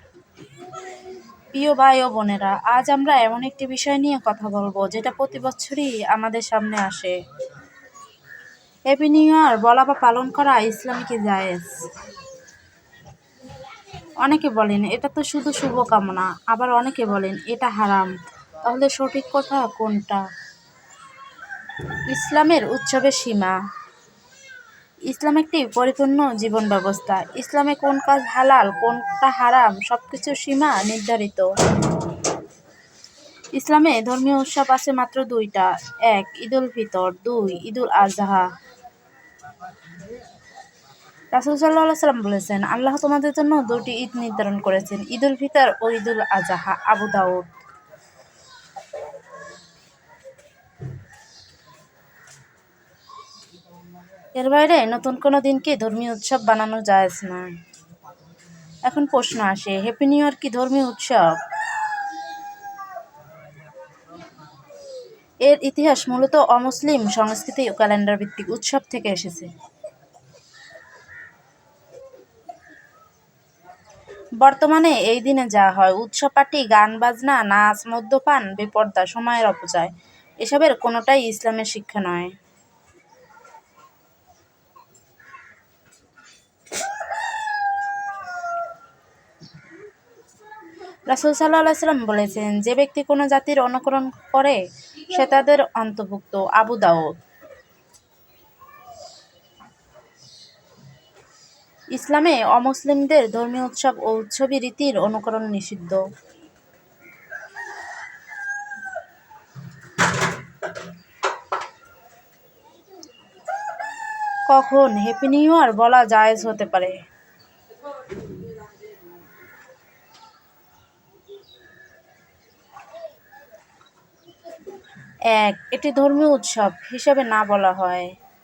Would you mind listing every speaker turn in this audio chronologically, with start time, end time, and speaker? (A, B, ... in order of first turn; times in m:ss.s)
0:01.5-0:07.2 A
0:08.9-0:11.8 A
0:14.2-0:20.2 A
0:22.1-0:23.6 A
0:25.1-0:31.5 A
0:33.6-0:38.5 A
0:41.3-0:47.5 A
0:54.3-0:57.6 A
0:58.8-1:01.4 A
1:05.4-1:09.5 A
1:14.4-1:22.3 A
1:31.1-1:37.2 A
1:41.9-1:46.0 A
1:54.5-1:57.0 A
2:05.3-2:08.1 A